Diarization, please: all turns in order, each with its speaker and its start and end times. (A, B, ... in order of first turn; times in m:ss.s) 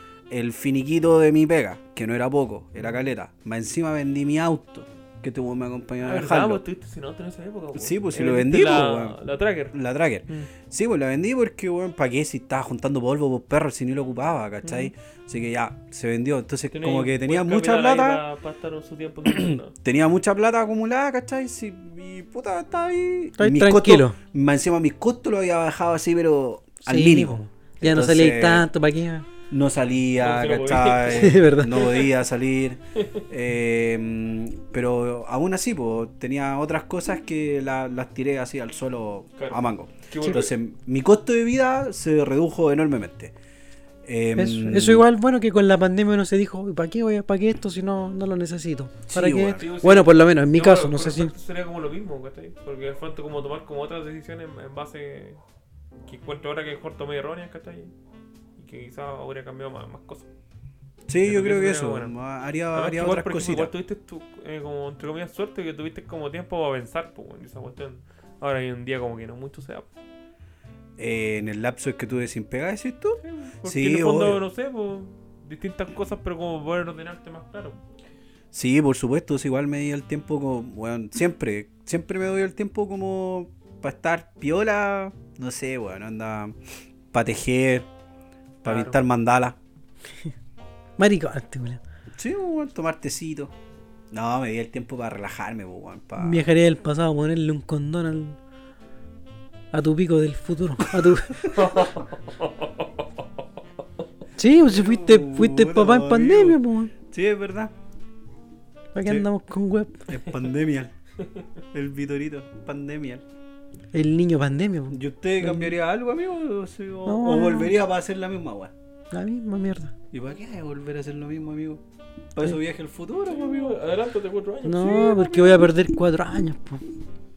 0:00.3-0:06.6 A
0:06.0-0:09.8 B
0:07.8-0:09.2 A
0:09.7-0:18.2 A
0:14.6-0:14.9 B
0:16.7-0:19.8 B
0:19.3-0:28.7 A
0:23.4-0:24.2 C
0:26.8-0:29.3 C
0:29.5-0:43.3 A
0:30.2-0:31.9 B
0:31.1-0:32.0 C
0:39.4-0:40.5 B
0:44.0-0:45.1 A
0:44.4-0:51.3 C
0:49.1-0:49.6 A
0:49.6-0:55.4 B
0:56.1-0:57.9 B
0:58.6-1:00.3 B
1:01.1-1:03.7 A
1:01.2-1:02.2 B
1:02.7-1:09.9 B
1:11.0-1:14.4 A
1:13.2-1:17.8 B
1:18.5-1:26.6 A
1:27.1-1:27.9 A
1:28.6-1:29.6 A
1:28.6-1:29.0 B
1:31.0-1:31.8 C
1:32.2-1:33.5 A
1:34.1-1:36.5 A
1:36.2-1:38.4 C
1:39.7-1:41.6 C
1:41.5-1:43.4 B
1:44.4-1:46.9 C
1:44.7-1:47.7 A
1:48.9-1:50.0 C
1:50.1-1:50.9 A
1:51.7-1:53.2 A
1:53.9-1:55.8 C
1:54.9-1:58.7 A
1:57.1-1:57.7 C
1:59.1-1:59.9 C
2:00.1-2:01.8 A
2:02.3-2:03.8 A
2:03.3-2:05.7 B
2:04.6-2:06.8 C